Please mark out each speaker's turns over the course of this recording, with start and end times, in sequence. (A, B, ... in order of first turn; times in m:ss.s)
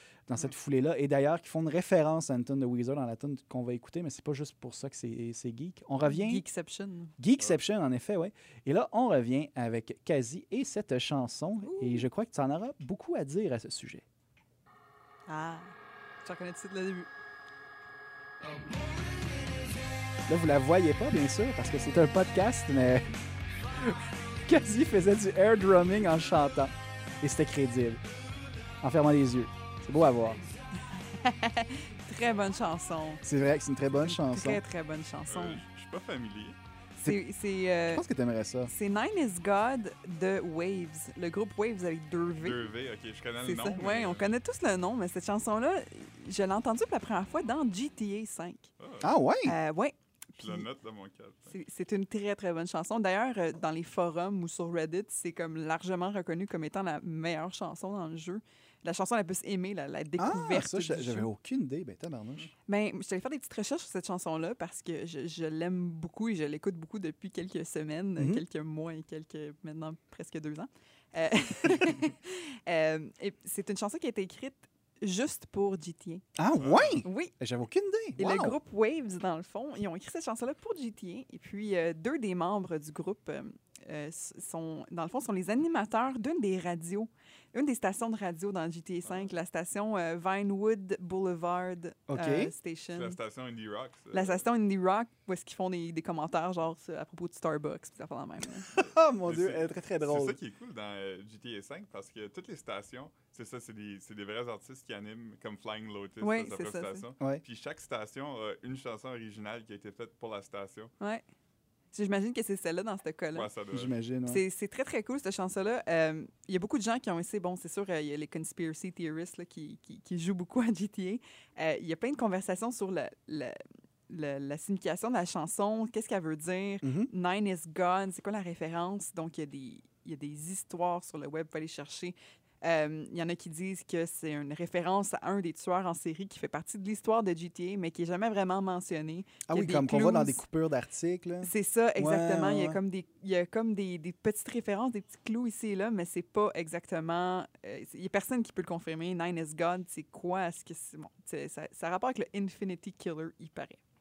0:00.3-0:06.4 A
0:06.0-0:07.1 B
0:07.2-0:14.0 A
0:11.6-0:12.0 B
0:15.3-0:15.7 B
0:16.2-0:17.1 B
0:20.3-0:23.1 A
0:23.7-0:28.0 A
0:28.8-0:30.4 A
0:30.8-0:33.2 B
0:33.2-0:34.6 A
0:33.9-0:35.6 B
0:35.3-0:36.6 C
0:37.0-0:38.0 B
0:37.9-0:38.7 A
0:38.7-0:42.6 B
0:42.4-0:44.3 C
0:43.4-0:48.7 B
0:48.8-0:49.1 C
0:49.0-0:49.5 A
0:49.4-0:50.6 B
0:50.4-0:51.5 C
0:51.5-1:01.3 B
1:00.2-1:02.5 A
1:02.7-1:16.2 B
1:08.2-1:08.4 A
1:16.4-1:18.6 A
1:16.6-1:17.0 C
1:17.0-1:17.3 B
1:18.2-1:33.2 B
1:32.1-1:32.5 A
1:32.9-1:34.4 C
1:34.1-1:38.7 B
1:38.7-1:40.4 A
1:38.7-1:50.9 C
1:46.2-1:47.1 B
1:51.9-1:53.5 B
1:53.3-1:53.9 C
1:53.7-1:54.4 A
1:54.3-2:20.4 B
2:06.8-2:07.1 A
2:19.5-2:22.8 A
2:21.4-2:33.8 B